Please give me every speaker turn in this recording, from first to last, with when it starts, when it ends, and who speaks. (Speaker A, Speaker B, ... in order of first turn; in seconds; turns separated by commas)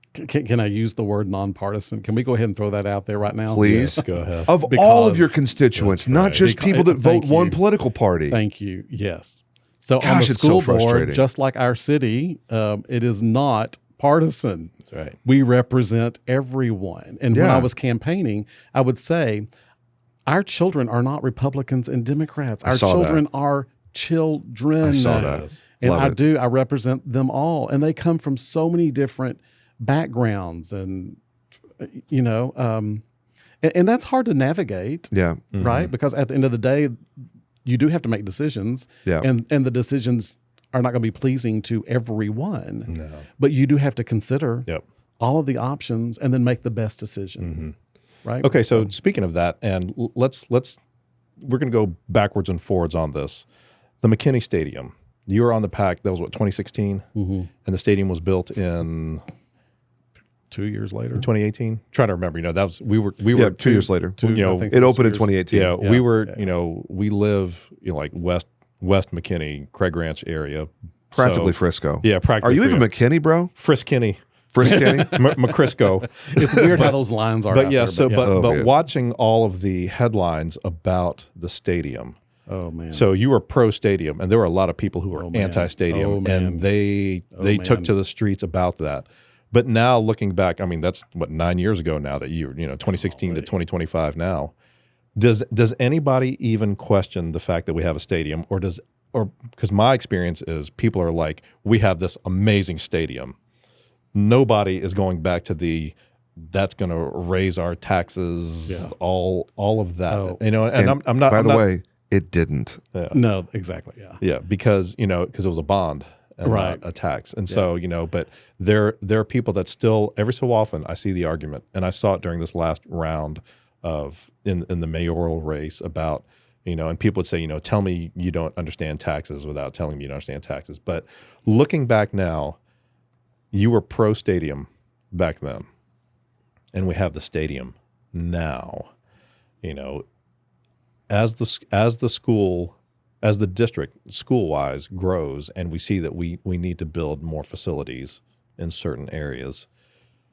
Speaker A: 0.1-5.4, Speaker B: 3.5-8.4, Speaker C: 3.6-4.5, Speaker C: 5.7-6.5, Speaker A: 6.3-7.6, Speaker A: 8.3-19.5, Speaker B: 10.0-11.2, Speaker C: 14.9-15.2, Speaker B: 17.3-17.7, Speaker A: 20.3-31.2, Speaker B: 22.6-23.2, Speaker B: 24.8-26.2, Speaker C: 25.0-25.6, Speaker A: 31.8-33.0, Speaker A: 33.6-36.9, Speaker B: 35.1-35.4, Speaker C: 35.5-35.9, Speaker A: 37.6-44.7, Speaker C: 42.9-43.2, Speaker A: 45.2-47.6, Speaker C: 47.4-47.7, Speaker A: 48.2-48.9, Speaker C: 48.4-50.8, Speaker C: 51.4-53.4, Speaker C: 54.0-57.0, Speaker A: 57.1-57.5, Speaker C: 57.6-59.2, Speaker A: 60.5-61.3, Speaker C: 61.1-64.8, Speaker B: 63.3-65.7, Speaker A: 64.2-66.4, Speaker C: 65.5-72.9, Speaker B: 71.1-73.5, Speaker C: 73.5-77.0, Speaker B: 74.5-75.2, Speaker A: 74.7-75.6, Speaker A: 76.2-78.3, Speaker C: 77.5-82.1, Speaker B: 78.2-78.7, Speaker A: 82.5-83.1, Speaker C: 82.9-94.5, Speaker A: 85.1-86.7, Speaker A: 87.3-87.9, Speaker A: 93.1-93.5, Speaker C: 95.2-103.3, Speaker C: 104.1-111.6, Speaker A: 108.7-108.9, Speaker A: 110.1-110.4, Speaker B: 110.7-112.8, Speaker C: 112.9-113.2, Speaker A: 113.1-114.2, Speaker C: 114.2-132.6, Speaker A: 116.4-116.8, Speaker C: 133.5-135.7, Speaker C: 136.7-138.9, Speaker C: 139.6-140.0, Speaker C: 141.1-149.7